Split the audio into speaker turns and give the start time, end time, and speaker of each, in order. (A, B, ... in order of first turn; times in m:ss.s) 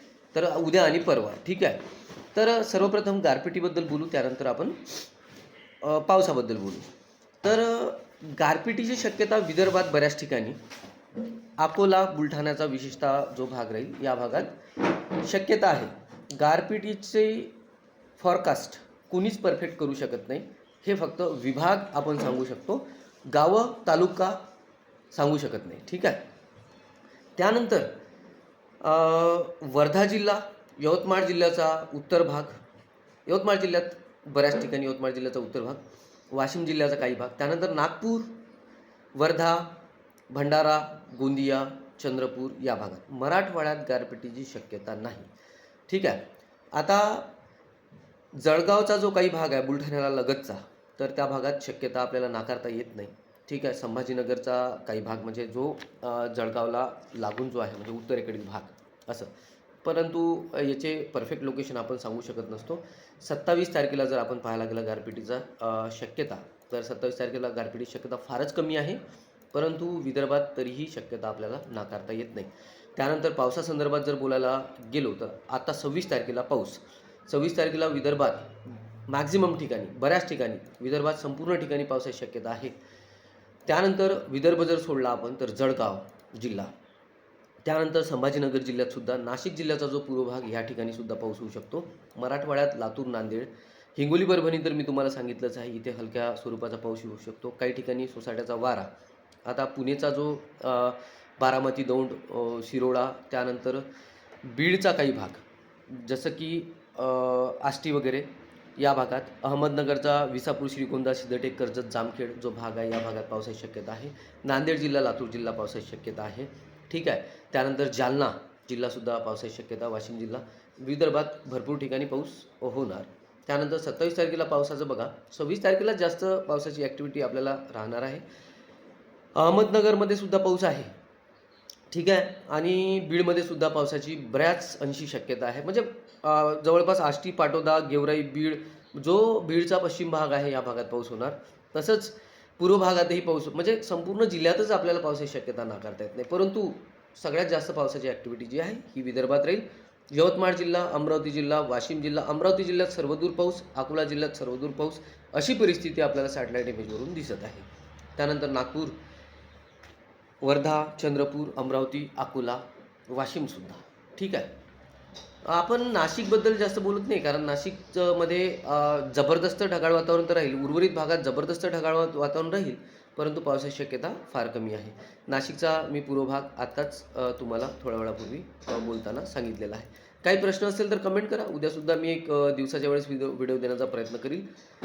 0:00.3-0:01.8 A
0:02.3-0:04.8 A
0:05.8-0:06.9 A
0:07.4-0:10.6 A
0:11.6-0:14.6 A
0:15.1-0:17.5 A
0:18.2-0:24.4 A
0:25.1-0:26.2 A
0:27.4-0:27.9 A
0:28.8-0:32.6 A
0:33.2-0:38.3 A
0:39.1-0:39.7 A
0:40.3-0:45.3 A
0:45.9-0:47.3 A
0:48.3-0:59.3 A
0:59.8-1:09.0 A
1:09.5-1:22.7 A
1:23.7-1:26.7 A
1:27.6-1:38.9 A
1:39.4-1:43.9 A
1:44.4-2:08.2 A
2:09.3-2:10.9 A
2:11.9-2:39.0 A
2:40.4-2:44.5 A
2:45.4-3:04.4 A